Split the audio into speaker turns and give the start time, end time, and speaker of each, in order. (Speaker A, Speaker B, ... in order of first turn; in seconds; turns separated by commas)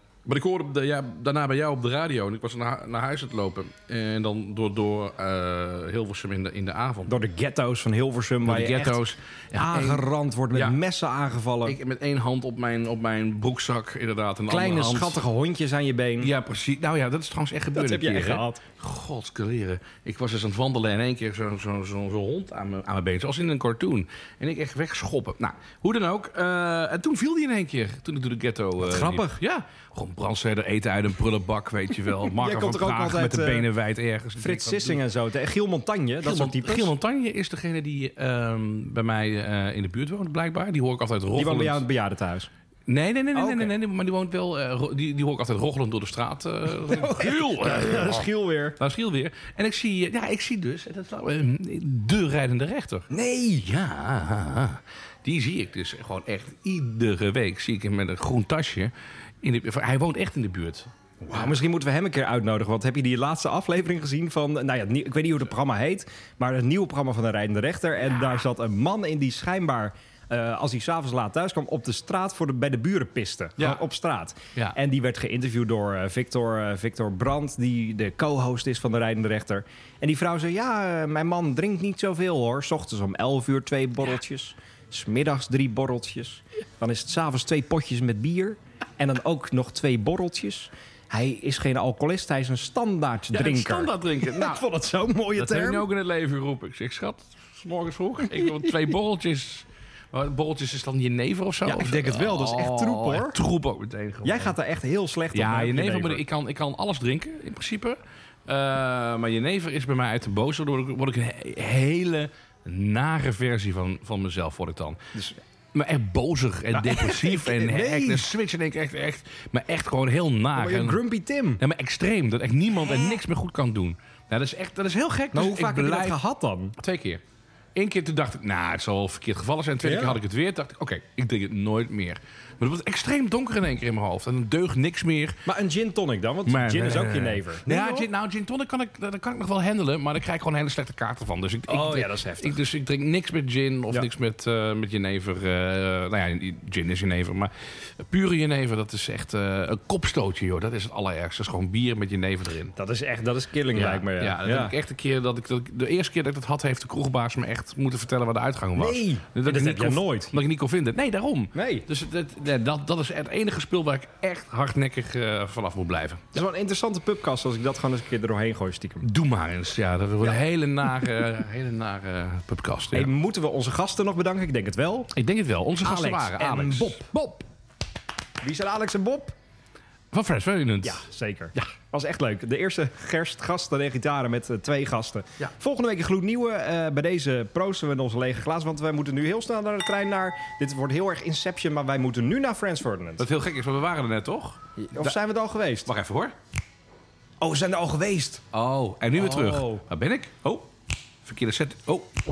Speaker A: 0.3-7.1, Speaker B: 7.1-11.8, Speaker A: 8.4-10.8, Speaker A: 11.6-15.2, Speaker B: 14.5-16.3, Speaker A: 16.2-35.0, Speaker B: 17.7-18.6, Speaker B: 28.8-29.4, Speaker B: 32.1-33.7, Speaker B: 34.4-36.9, Speaker A: 36.2-41.9, Speaker B: 41.4-42.5, Speaker A: 42.9-53.1, Speaker B: 43.4-43.7, Speaker B: 46.7-48.8, Speaker B: 53.1-53.7, Speaker A: 53.6-61.5, Speaker B: 61.2-95.9, Speaker A: 93.3-94.6, Speaker A: 95.3-104.5, Speaker B: 98.3-98.9, Speaker B: 101.7-103.4, Speaker B: 104.2-106.2, Speaker A: 105.3-115.0, Speaker A: 115.7-121.0, Speaker B: 116.7-118.3, Speaker B: 120.6-121.6, Speaker A: 121.6-126.2, Speaker B: 125.3-126.8, Speaker A: 126.8-127.2, Speaker A: 127.8-135.4, Speaker B: 129.8-130.2, Speaker B: 135.5-138.1, Speaker A: 136.5-152.8, Speaker B: 141.7-142.6, Speaker B: 152.8-154.8, Speaker A: 153.7-166.3, Speaker B: 158.8-160.3, Speaker B: 161.5-161.9, Speaker B: 166.3-169.1, Speaker A: 169.0-173.1, Speaker B: 172.9-175.1, Speaker A: 175.1-177.0, Speaker B: 175.8-177.5, Speaker B: 178.4-179.4, Speaker A: 180.1-181.1, Speaker B: 180.8-193.2, Speaker A: 193.2-195.2, Speaker B: 194.8-195.9, Speaker A: 195.8-196.3, Speaker B: 197.4-198.4, Speaker A: 198.5-200.7, Speaker B: 199.1-199.8, Speaker A: 201.2-202.1